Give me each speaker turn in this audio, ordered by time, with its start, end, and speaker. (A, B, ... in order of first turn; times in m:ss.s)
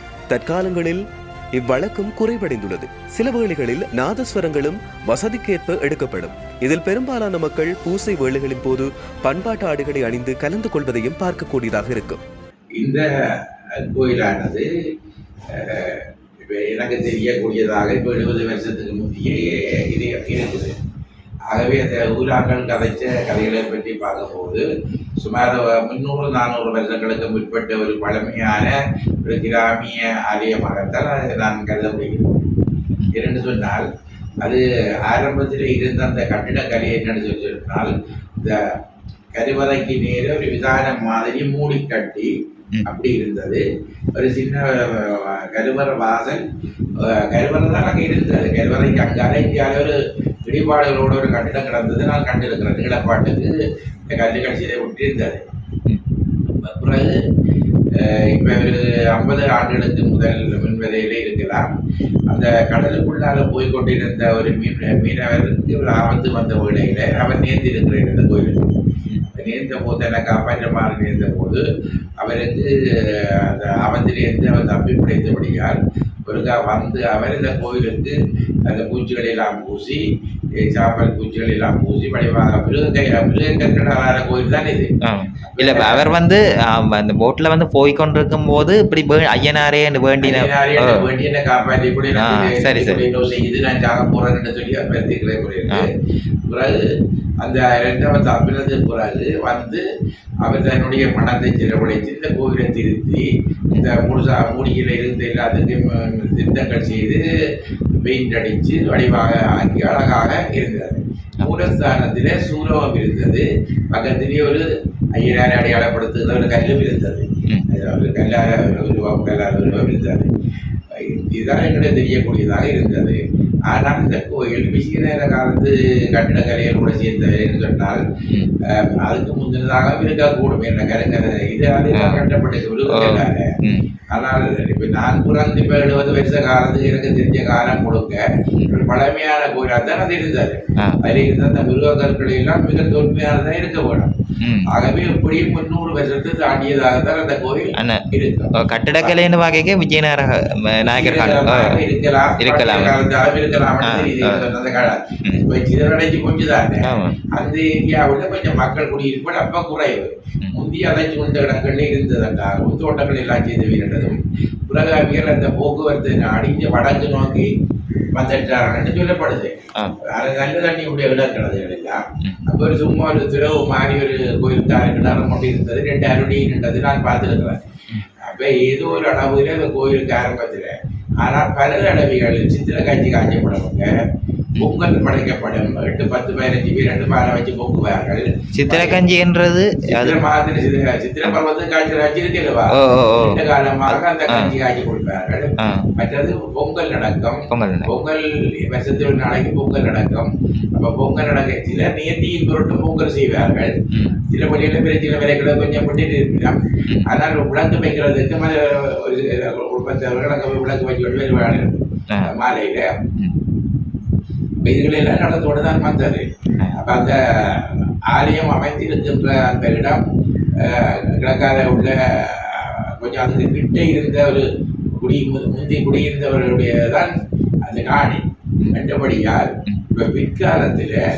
0:00.3-0:12.2 A
0:12.8-0:13.0 B
0:13.9-0:14.7 B
0:15.6-0:20.7 B
0:21.5-0:24.7 B
0:25.2-0:32.4 B
0:33.1-0:33.9 B
0:34.4-0:38.6 B
0:39.3-0:42.3 B
0:42.9-0:46.4 B
0:47.0-0:53.6 B
0:54.1-0:55.4 B
0:56.6-0:57.2 B
0:58.0-1:01.7 B
1:02.3-1:08.8 B
1:09.3-1:11.6 B
1:12.2-1:20.0 B
1:20.6-1:24.9 B
1:25.0-1:31.1 C
1:25.5-1:26.1 B
1:30.2-1:35.9 B
1:32.2-1:33.0 C
1:36.5-1:36.8 B
1:37.4-1:39.8 B
1:40.4-1:47.2 B
1:48.0-2:00.3 B
2:00.9-2:08.0 B
2:08.7-2:13.5 B
2:11.9-2:12.2 C
2:12.9-2:13.9 C
2:14.1-2:24.1 B
2:24.4-2:24.7 C
2:24.7-2:29.2 B
2:27.8-2:31.8 C
2:31.0-2:47.5 B
2:32.4-2:33.0 C
2:33.8-2:34.6 C
2:36.8-2:37.2 C
2:48.1-2:49.6 B
2:50.1-2:57.6 B
2:58.2-3:03.9 B
3:04.6-3:09.1 B
3:08.5-3:10.2 C
3:09.9-3:23.8 B
3:12.7-3:14.6 C
3:15.6-3:15.9 C
3:17.5-3:17.9 C
3:23.9-3:24.2 C
3:24.3-3:33.0 B
3:34.6-3:40.0 B
3:36.6-3:36.8 C
3:40.6-3:44.5 B
3:45.0-3:47.1 B
3:47.6-3:51.0 B